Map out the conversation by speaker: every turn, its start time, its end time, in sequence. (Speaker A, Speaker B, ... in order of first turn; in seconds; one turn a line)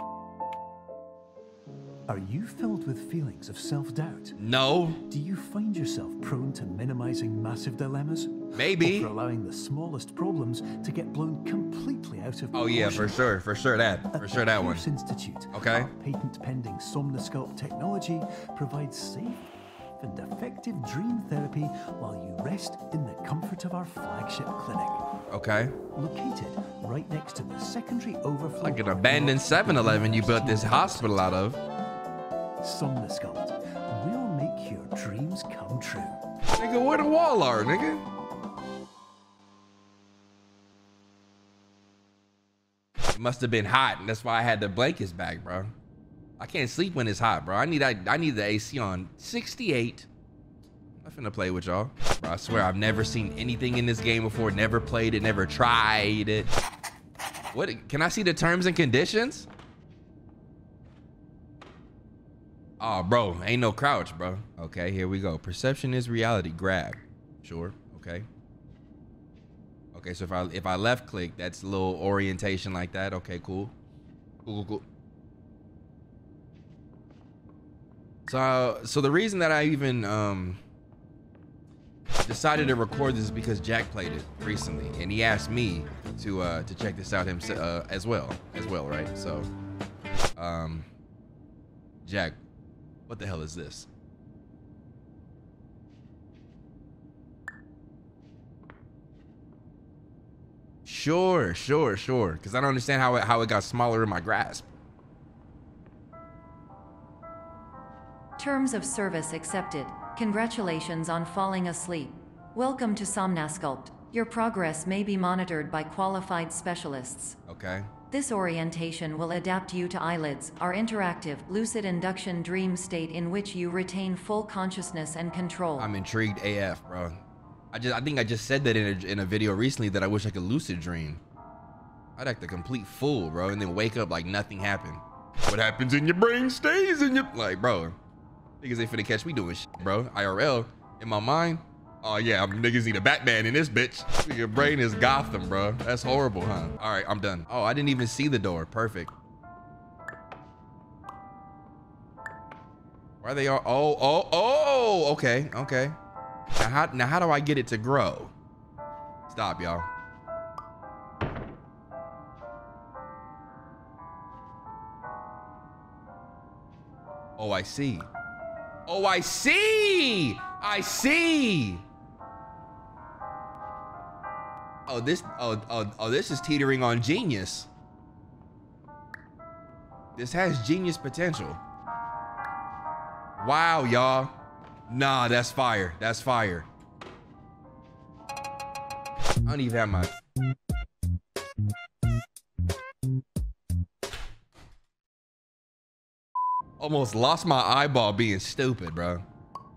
Speaker A: 2.1-4.4
Speaker B: 4.4-5.0
Speaker A: 5.1-13.2
Speaker B: 8.6-9.1
Speaker B: 12.5-14.8
Speaker A: 14.1-25.0
Speaker B: 15.5-15.9
Speaker B: 25.3-25.8
Speaker A: 25.9-31.3
Speaker B: 28.6-31.6
Speaker A: 32.6-36.2
Speaker B: 36.5-38.0
Speaker B: 43.1-45.7
Speaker B: 46.4-50.1
Speaker B: 51.0-56.5
Speaker B: 57.5-59.5
Speaker B: 62.8-68.3
Speaker B: 69.9-73.7
Speaker B: 74.5-74.8
Speaker B: 78.3-80.6
Speaker B: 82.2-89.5
Speaker B: 90.4-90.9
Speaker B: 92.0-92.4
Speaker B: 93.1-93.9
Speaker B: 100.8-104.7
Speaker C: 108.4-117.4
Speaker B: 117.5-117.9
Speaker C: 118.1-125.9
Speaker B: 125.8-127.2
Speaker B: 127.7-131.2
Speaker B: 132.2-138.0
Speaker B: 138.6-149.1
Speaker B: 153.2-156.0
Speaker B: 156.6-158.3
Speaker B: 159.3-159.9
Speaker B: 167.4-168.1
Speaker B: 168.9-171.8
Speaker B: 174.9-177.7
Speaker B: 180.2-181.6
Speaker B: 183.4-184.3
Speaker B: 184.9-186.7
Speaker B: 189.4-190.1
Speaker B: 196.8-199.2